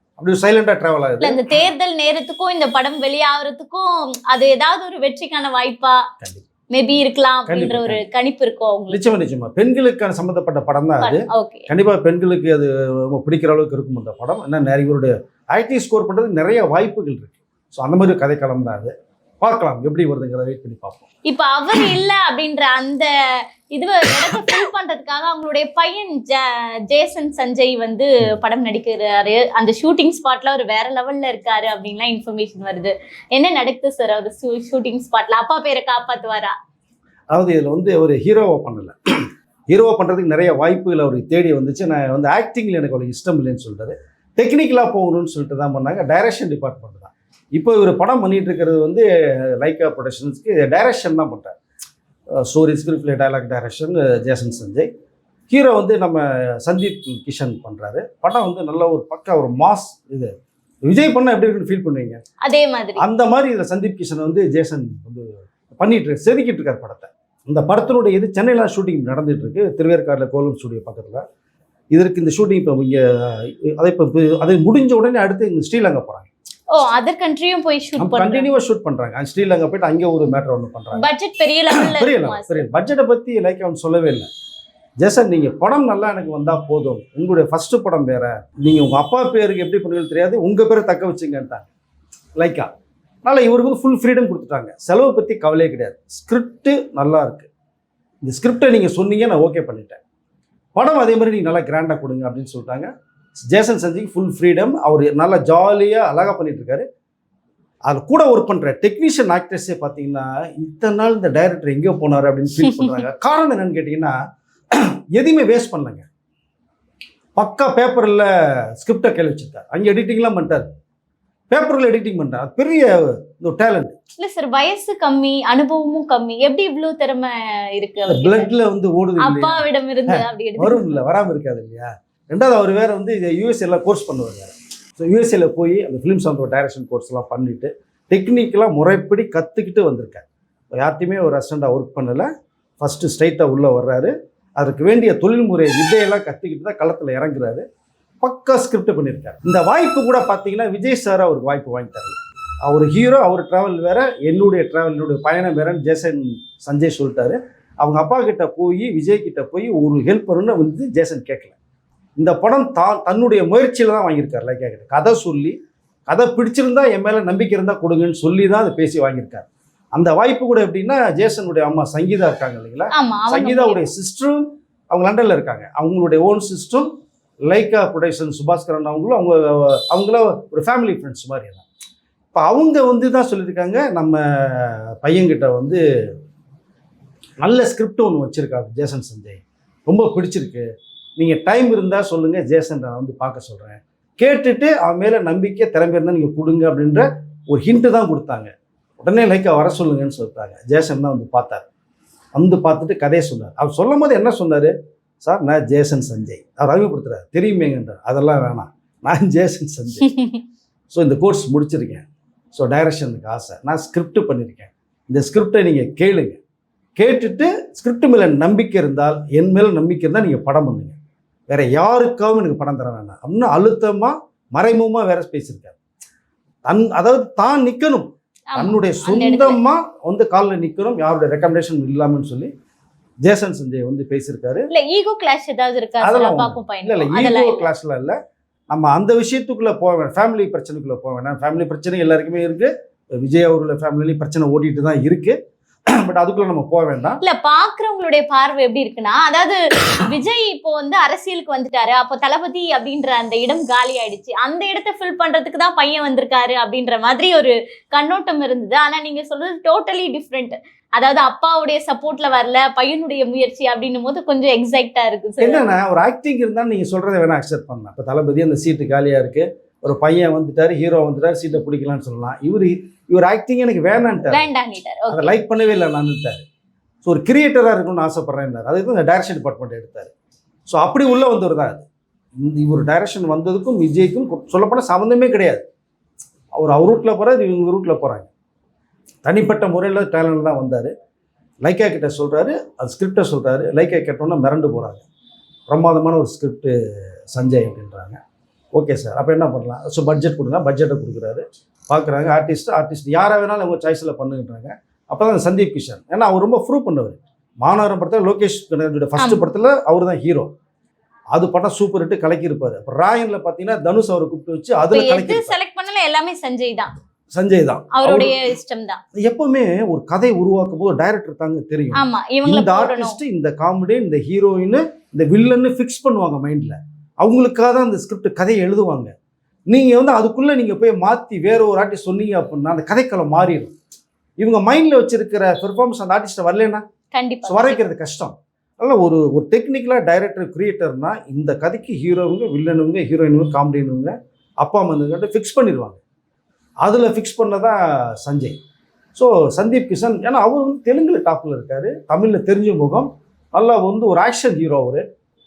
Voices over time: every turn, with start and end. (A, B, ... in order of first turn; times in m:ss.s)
0:00.2-0:01.4 A
0:01.2-0:06.1 B
0:06.2-0:06.5 A
0:06.7-0:09.0 B
0:07.5-0:08.0 A
0:08.9-0:21.0 A
0:11.0-0:11.7 B
0:21.2-0:36.5 B
0:37.3-0:38.9 A
0:39.7-0:49.0 A
0:49.6-0:51.6 A
0:52.4-0:54.9 A
0:55.5-1:00.3 A
1:00.8-1:02.2 A
1:02.4-1:03.0 B
1:03.0-1:11.2 A
1:11.9-1:16.3 A
1:16.7-1:18.5 B
1:18.0-1:21.1 A
1:20.9-1:22.7 B
1:21.7-1:24.3 A
1:25.0-1:31.7 A
1:32.4-1:32.7 A
1:33.2-1:37.5 A
1:38.2-1:40.0 A
1:40.7-1:46.8 A
1:47.8-1:54.1 A
1:52.6-1:53.0 B
1:54.7-1:56.0 A
1:57.4-2:00.7 A
2:01.5-2:03.9 A
2:04.2-2:08.5 B
2:08.1-2:27.6 A
2:09.2-2:10.9 B
2:28.2-2:41.5 A
2:42.2-2:45.5 A
2:46.1-2:56.9 A
2:52.9-2:53.9 B
2:57.5-3:01.6 A
3:02.3-3:05.8 A
3:07.4-3:10.6 A
3:11.2-3:21.6 A
3:22.3-3:30.2 A
3:30.0-3:30.4 B
3:30.9-3:36.4 A
3:37.0-3:40.9 A
3:41.5-3:45.8 A
3:46.6-3:52.5 A
3:48.5-3:49.6 B
3:53.2-3:54.7 A
3:54.7-3:57.7 B
3:56.0-3:58.2 A
3:58.7-4:05.4 A
4:06.0-4:07.2 A
4:07.2-4:25.7 B
4:25.4-4:34.5 A
4:34.3-4:35.3 B
4:35.1-4:36.4 A
4:37.0-4:40.1 A
4:40.7-4:41.8 A
4:42.4-4:45.6 A
4:46.5-4:48.3 A
4:49.2-4:50.9 A
4:51.6-4:55.0 A
4:55.7-4:56.7 A
4:57.3-4:58.2 A
4:58.7-5:10.5 A
5:11.3-5:15.5 A
5:14.9-5:16.9 B
5:17.3-5:18.4 A
5:17.9-5:19.0 B
5:19.2-5:29.1 A
5:21.9-5:23.2 B
5:29.7-5:33.7 A
5:34.4-5:36.8 A
5:37.1-5:37.8 B
5:37.4-5:46.0 A
5:46.8-5:48.6 A
5:49.1-5:55.0 A